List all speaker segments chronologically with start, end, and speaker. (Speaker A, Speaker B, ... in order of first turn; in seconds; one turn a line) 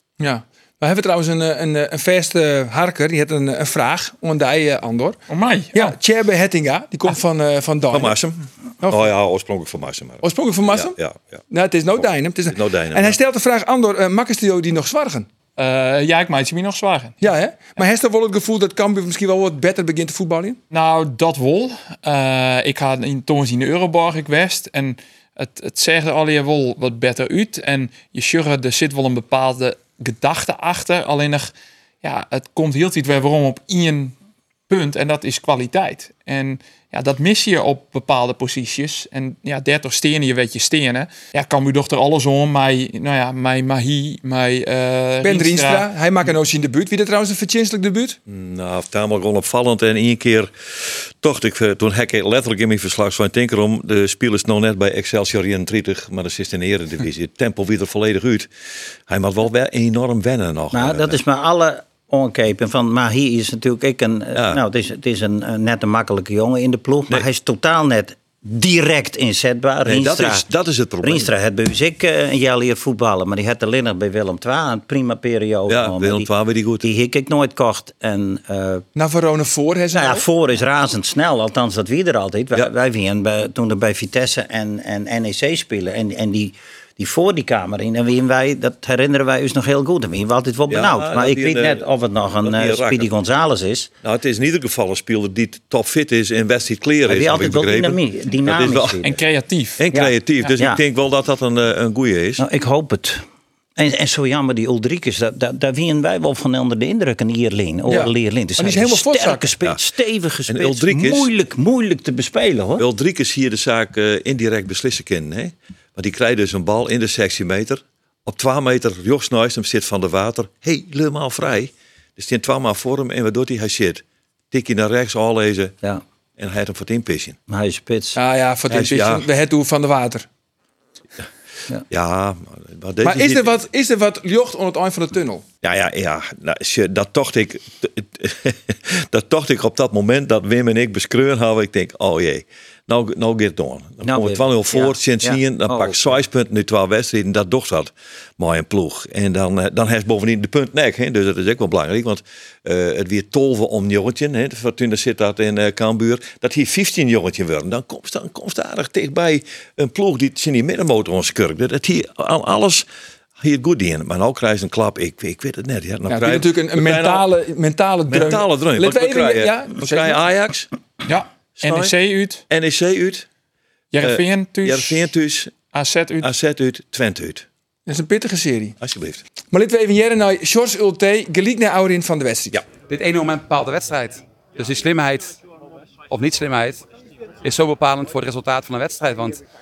Speaker A: 0.2-5.2
Speaker B: 5.3-6.0
Speaker A: 5.7-8.2
Speaker C: 7.9-11.4
Speaker A: 8.8-9.1
Speaker A: 10.2-10.9
Speaker A: 11.5-15.2
Speaker C: 11.9-13.2
Speaker B: 15.6-17.3
Speaker A: 17.2-20.6
Speaker B: 20.7-31.5
Speaker B: 32.0-34.1
Speaker B: 34.7-45.8
Speaker A: 45.2-48.2
Speaker C: 48.3-61.2
Speaker D: 60.7-70.4
Speaker C: 64.3-64.6
Speaker C: 69.8-71.3
Speaker D: 71.0-76.3
Speaker C: 75.7-76.8
Speaker D: 76.8-78.8
Speaker A: 79.0-80.2
Speaker D: 79.9-93.9
Speaker C: 90.7-91.8
Speaker C: 92.4-93.1
Speaker C: 94.0-99.0
Speaker D: 97.1-99.2
Speaker B: 99.0-99.8
Speaker C: 99.8-102.4
Speaker D: 99.9-100.8
Speaker D: 102.4-103.2
Speaker D: 103.8-112.8
Speaker A: 107.9-109.5
Speaker C: 110.5-111.3
Speaker C: 112.8-125.7
Speaker C: 126.4-127.4
Speaker D: 127.5-128.2
Speaker A: 128.2-130.2
Speaker C: 128.7-129.3
Speaker C: 131.9-133.6
Speaker A: 133.0-135.4
Speaker C: 135.6-162.8
Speaker D: 144.0-146.1
Speaker C: 163.4-167.3
Speaker A: 166.1-170.2
Speaker C: 168.1-170.7
Speaker B: 171.1-172.4
Speaker C: 171.6-171.9
Speaker C: 172.5-173.3
Speaker B: 173.9-175.1
Speaker C: 174.0-175.6
Speaker B: 175.7-176.3
Speaker C: 176.2-177.4
Speaker A: 177.9-178.8
Speaker C: 178.8-179.2
Speaker A: 179.5-182.6
Speaker E: 182.9-185.4
Speaker E: 186.1-186.8
Speaker E: 187.4-189.4